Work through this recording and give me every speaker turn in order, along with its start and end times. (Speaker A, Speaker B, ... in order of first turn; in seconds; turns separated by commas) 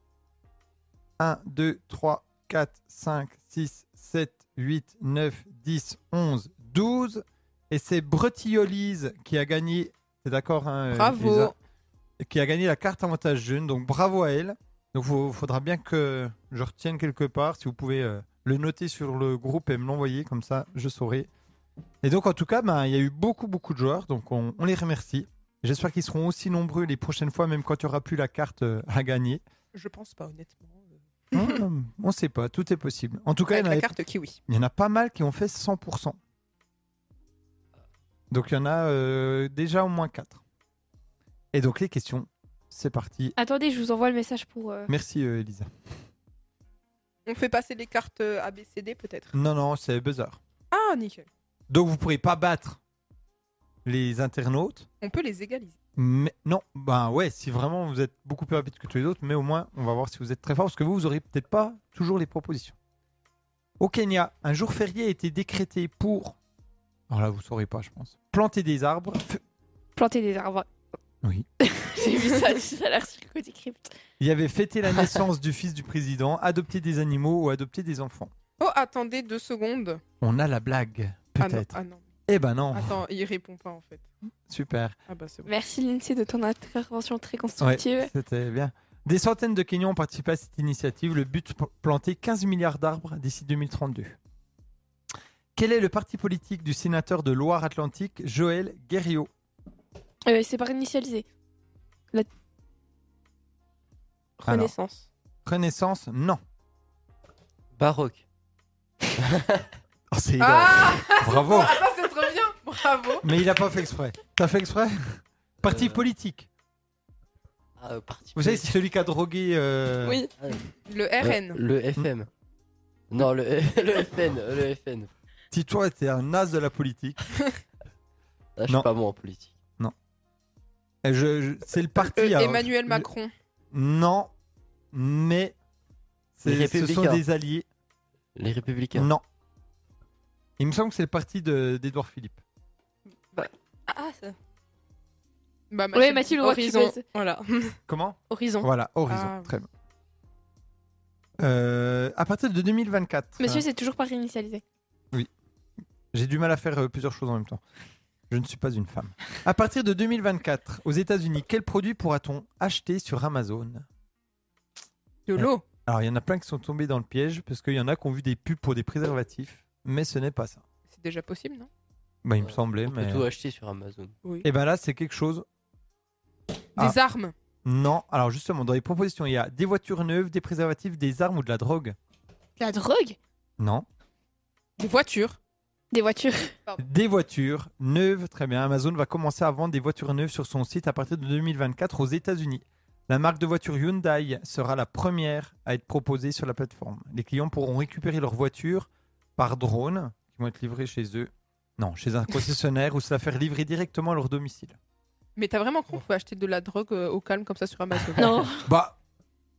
Speaker A: 1.2-11.5, Speaker B: 10.9-11.6, Speaker A: 12.2-21.3, Speaker A: 22.0-29.4, Speaker B: 29.7-31.0, Speaker A: 31.3-33.9, Speaker B: 33.5-34.4, Speaker A: 34.5-36.2, Speaker A: 38.3-40.4, Speaker A: 41.5-43.4, Speaker C: 43.4-44.9, Speaker A: 44.9-45.7, Speaker B: 47.3-49.4, Speaker A: 49.3-50.4, Speaker B: 50.7-51.3, Speaker A: 51.7-52.8, Speaker A: 53.9-54.9, Speaker B: 55.0-55.8, Speaker A: 56.0-62.8, Speaker A: 63.8-66.4, Speaker A: 67.1-69.4, Speaker C: 70.0-70.7, Speaker C: 71.6-73.9, Speaker A: 74.2-78.3, Speaker B: 78.6-80.0, Speaker A: 80.2-83.0, Speaker B: 81.4-82.0, Speaker B: 82.7-84.1, Speaker A: 84.5-85.0, Speaker B: 85.1-85.5, Speaker C: 85.5-88.1, Speaker A: 87.6-94.2, Speaker A: 95.6-99.3, Speaker C: 100.3-101.3, Speaker D: 104.4-105.1, Speaker A: 104.5-104.7, Speaker A: 105.5-106.4, Speaker E: 107.8-108.2, Speaker E: 109.2-109.7, Speaker A: 110.1-111.8, Speaker B: 110.4-113.3, Speaker A: 113.2-116.5, Speaker E: 115.6-116.0, Speaker E: 117.8-118.8, Speaker A: 118.4-120.2, Speaker D: 120.0-120.3, Speaker B: 120.9-121.6, Speaker E: 121.2-122.3, Speaker E: 123.1-125.1, Speaker A: 125.5-127.2, Speaker E: 128.6-129.6, Speaker A: 131.0-133.1, Speaker B: 132.0-133.3, Speaker A: 133.7-134.3, Speaker A: 134.9-135.6, Speaker A: 136.4-137.7, Speaker E: 136.4-137.2, Speaker E: 138.3-139.1, Speaker A: 138.9-139.2, Speaker A: 140.6-142.4, Speaker D: 143.3-144.4, Speaker B: 145.7-146.9, Speaker C: 145.9-147.0, Speaker D: 146.4-147.8, Speaker A: 147.9-149.7, Speaker D: 148.3-148.7, Speaker B: 149.1-149.6, Speaker A: 151.4-153.7, Speaker C: 153.4-154.6, Speaker A: 156.1-157.6, Speaker A: 158.3-163.9, Speaker B: 165.3-165.6, Speaker A: 165.4-170.6, Speaker B: 170.9-171.7, Speaker A: 172.2-173.3, Speaker E: 172.4-174.2, Speaker A: 174.4-175.4, Speaker B: 176.8-177.3, Speaker A: 177.7-182.0, Speaker C: 182.6-183.2, Speaker A: 183.6-183.9, Speaker B: 184.8-185.4, Speaker C: 185.9-186.6, Speaker A: 186.8-204.8, Speaker B: 205.4-208.5, Speaker C: 208.2-208.7, Speaker A: 208.6-209.0